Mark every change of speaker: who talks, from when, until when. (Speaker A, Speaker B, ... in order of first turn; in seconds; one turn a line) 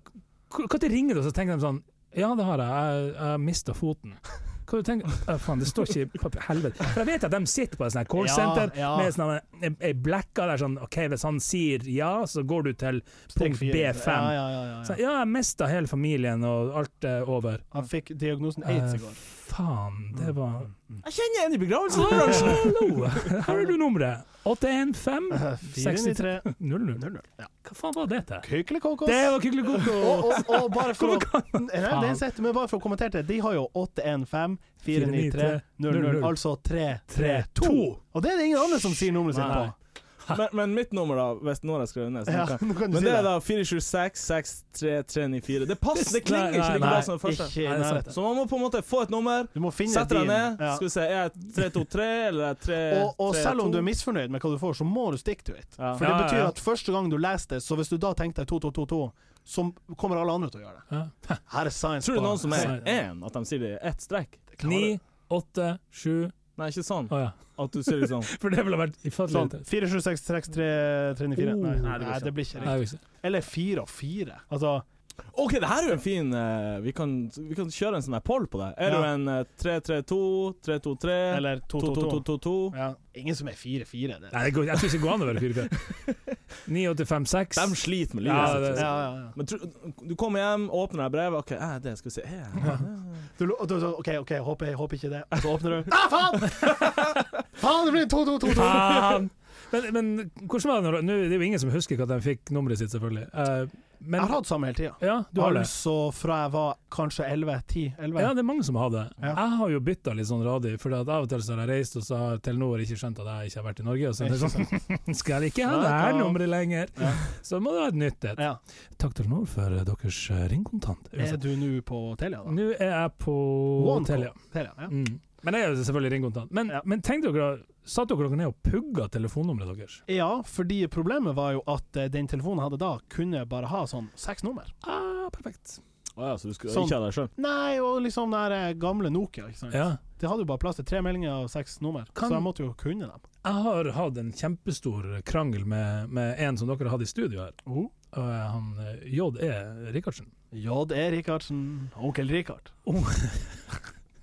Speaker A: 0.5-17.6
Speaker B: 8.2-9.1
Speaker B: 13.3-15.0
Speaker B: 17.7-19.2
Speaker A: 18.6-20.7
Speaker C: 21.0-23.3
Speaker A: 21.9-27.0
Speaker B: 25.3-27.5
Speaker A: 27.6-28.5
Speaker B: 28.4-39.7
Speaker A: 29.0-32.2
Speaker A: 34.9-36.4
Speaker A: 37.1-38.0
Speaker A: 38.7-39.7
Speaker C: 39.3-39.7
Speaker C: 40.3-47.5
Speaker B: 42.3-43.3
Speaker A: 45.9-48.1
Speaker B: 46.8-48.1
Speaker C: 48.1-53.9
Speaker B: 49.5-50.8
Speaker B: 52.9-60.8
Speaker C: 55.8-56.0
Speaker A: 56.0-56.5
Speaker A: 60.9-61.4
Speaker B: 61.5-62.8
Speaker C: 62.0-64.4
Speaker A: 62.5-62.8
Speaker B: 64.5-65.0
Speaker A: 64.6-66.4
Speaker C: 66.6-68.3
Speaker A: 67.1-69.6
Speaker B: 69.3-74.8
Speaker A: 71.3-73.0
Speaker C: 72.0-72.3
Speaker C: 75.3-82.8
Speaker B: 78.8-79.1
Speaker B: 81.3-85.0
Speaker A: 84.3-85.8
Speaker A: 86.6-88.9
Speaker C: 87.5-93.2
Speaker B: 88.3-89.3
Speaker B: 93.4-99.2
Speaker A: 98.5-104.4
Speaker B: 104.2-108.3
Speaker A: 105.0-105.7
Speaker A: 108.2-118.4
Speaker B: 114.2-114.7
Speaker B: 115.6-116.4
Speaker A: 119.0-121.4
Speaker B: 121.2-122.5
Speaker A: 122.5-124.4
Speaker B: 123.8-124.9
Speaker A: 124.9-130.0
Speaker B: 130.1-134.7
Speaker A: 134.8-135.8
Speaker C: 136.2-137.3
Speaker B: 136.7-143.2
Speaker A: 139.7-140.0
Speaker A: 142.1-142.5
Speaker A: 143.4-147.6
Speaker B: 147.7-147.9
Speaker A: 148.1-150.3
Speaker B: 150.5-152.7
Speaker A: 152.8-153.7